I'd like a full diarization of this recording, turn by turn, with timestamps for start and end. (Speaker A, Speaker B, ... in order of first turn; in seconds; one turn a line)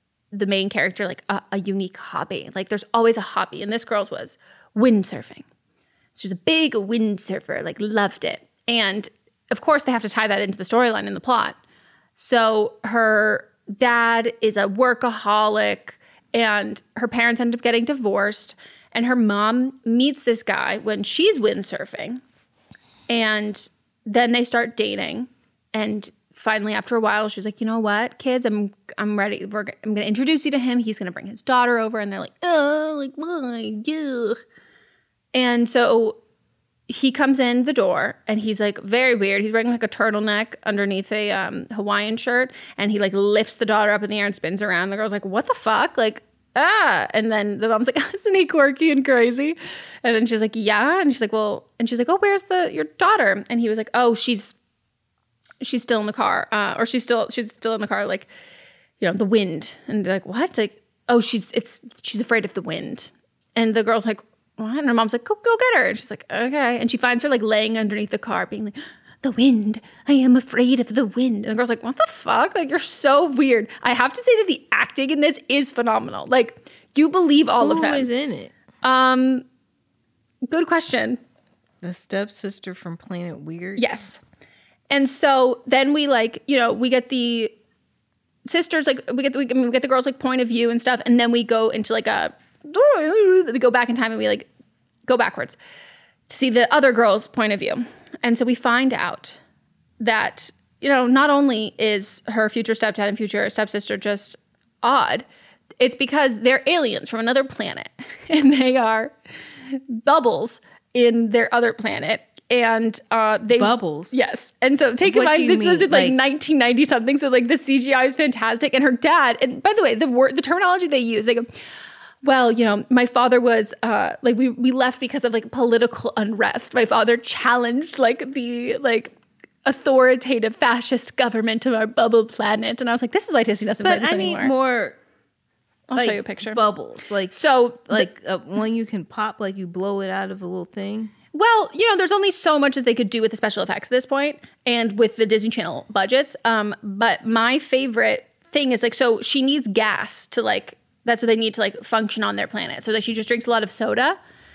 Speaker A: 0.3-5.5
Speaker A: 6.1-11.6
Speaker A: 12.2-22.2
Speaker A: 23.1-34.4
Speaker A: 35.3-36.2
Speaker A: 36.9-54.5
Speaker A: 55.6-58.3
Speaker A: 59.0-78.1
Speaker B: 77.6-78.5
Speaker A: 78.8-79.4
Speaker A: 80.5-81.2
Speaker B: 81.8-83.9
Speaker A: 83.8-84.2
Speaker A: 84.9-87.5
Speaker A: 88.4-94.5
Speaker A: 95.1-95.6
Speaker A: 96.3-99.4
Speaker A: 100.0-105.2
Speaker A: 105.8-109.1
Speaker A: 109.7-121.5
Speaker B: 113.5-114.1
Speaker B: 115.0-116.2
Speaker A: 122.2-129.1
Speaker A: 129.6-134.5
Speaker B: 133.8-135.0
Speaker A: 135.9-136.6
Speaker B: 135.9-137.3
Speaker A: 137.3-138.1
Speaker B: 137.9-141.1
Speaker A: 141.3-154.2